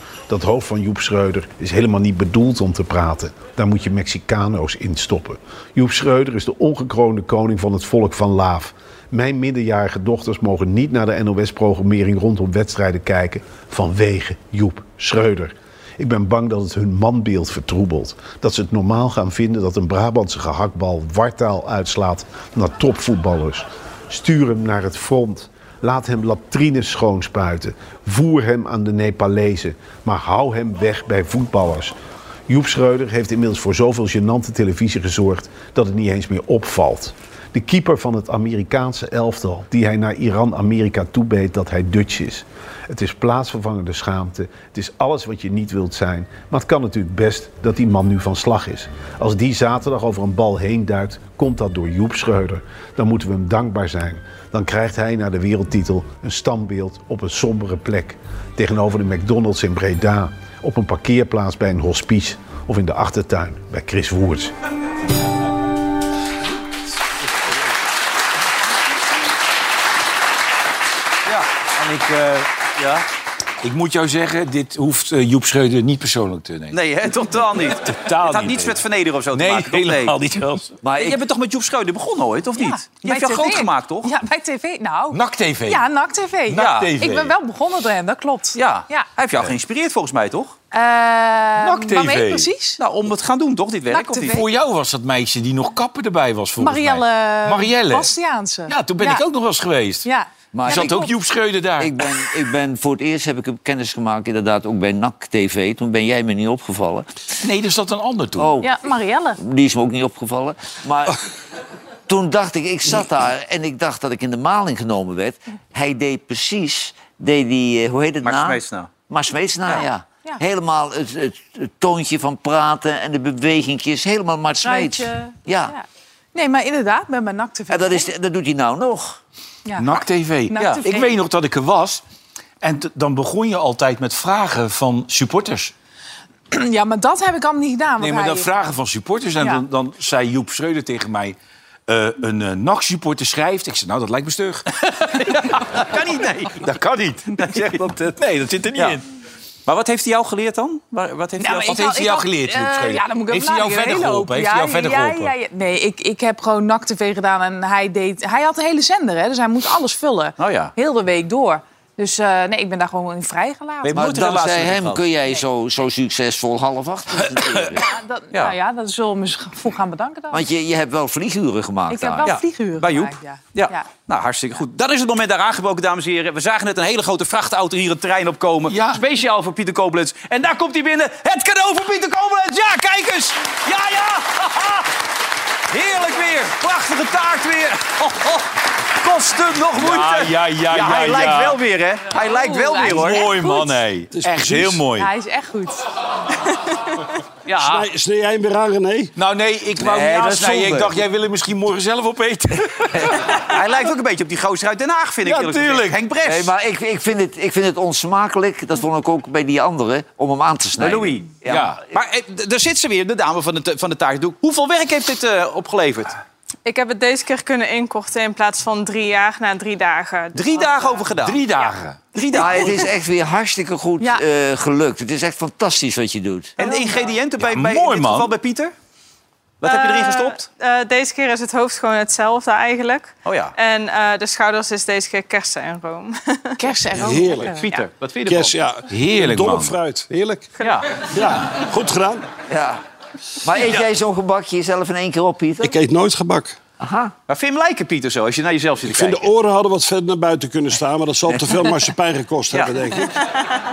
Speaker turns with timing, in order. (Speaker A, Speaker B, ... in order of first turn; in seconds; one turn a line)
Speaker A: 0.3-31.9
Speaker A: 32.5-64.5
Speaker B: 71.8-72.5
Speaker C: 72.8-73.0
Speaker B: 73.6-76.8
Speaker C: 76.7-80.2
Speaker B: 77.8-78.8
Speaker B: 79.3-80.8
Speaker D: 80.8-81.2
Speaker C: 80.9-84.1
Speaker E: 82.6-89.1
Speaker B: 85.1-85.8
Speaker B: 86.5-87.3
Speaker C: 86.5-86.9
Speaker C: 88.5-90.5
Speaker E: 90.7-92.8
Speaker B: 91.6-92.5
Speaker C: 92.8-94.4
Speaker E: 93.9-94.4
Speaker B: 94.2-98.1
Speaker E: 96.6-99.2
Speaker B: 98.7-100.1
Speaker E: 100.0-101.1
Speaker D: 100.5-101.1
Speaker B: 100.7-101.9
Speaker D: 101.8-107.1
Speaker B: 107.4-108.5
Speaker D: 108.4-108.7
Speaker E: 108.6-109.4
Speaker D: 109.4-111.2
Speaker D: 112.1-125.7
Speaker C: 118.2-118.9
Speaker E: 119.7-120.4
Speaker E: 124.6-128.1
Speaker D: 127.7-129.2
Speaker E: 129.7-131.2
Speaker B: 129.8-132.0
Speaker B: 132.6-135.7
Speaker E: 136.5-138.5
Speaker B: 138.0-141.3
Speaker B: 141.9-144.7
Speaker C: 145.0-146.6
Speaker B: 146.5-149.0
Speaker C: 147.3-147.9
Speaker C: 148.7-149.0
Speaker C: 149.7-151.8
Speaker E: 151.4-164.1
Speaker B: 151.7-155.3
Speaker C: 160.4-160.7
Speaker C: 163.8-165.0
Speaker D: 163.9-167.8
Speaker E: 167.8-170.4
Speaker D: 170.3-172.3
Speaker E: 171.9-173.9
Speaker C: 172.2-184.9
Speaker B: 178.7-179.0
Speaker C: 185.7-193.3
Speaker B: 189.7-191.6
Speaker E: 192.1-193.8
Speaker B: 192.8-195.1
Speaker F: 194.1-194.8
Speaker E: 194.9-195.8
Speaker C: 197.4-197.9
Speaker F: 197.6-199.1
Speaker B: 199.2-203.5
Speaker D: 199.8-200.9
Speaker D: 202.9-203.4
Speaker C: 203.3-206.5
Speaker B: 205.2-206.1
Speaker D: 206.2-211.8
Speaker C: 210.8-211.4
Speaker B: 211.4-211.8
Speaker C: 211.9-216.1
Speaker G: 216.6-220.7
Speaker C: 220.3-221.4
Speaker B: 221.2-222.1
Speaker C: 222.1-222.9
Speaker D: 222.3-226.5
Speaker C: 226.6-228.7
Speaker E: 226.6-227.1
Speaker B: 227.4-228.3
Speaker C: 229.6-230.5
Speaker G: 229.6-236.6
Speaker C: 233.2-233.5
Speaker E: 236.6-237.7
Speaker F: 236.9-237.6
Speaker C: 237.5-238.5
Speaker F: 238.2-240.5
Speaker B: 238.9-239.8
Speaker C: 240.6-240.9
Speaker F: 241.0-242.3
Speaker D: 242.5-242.8
Speaker D: 243.4-245.8
Speaker C: 243.6-243.8
Speaker F: 245.6-246.6
Speaker D: 246.8-247.1
Speaker C: 247.3-249.3
Speaker F: 248.9-253.3
Speaker C: 252.5-252.9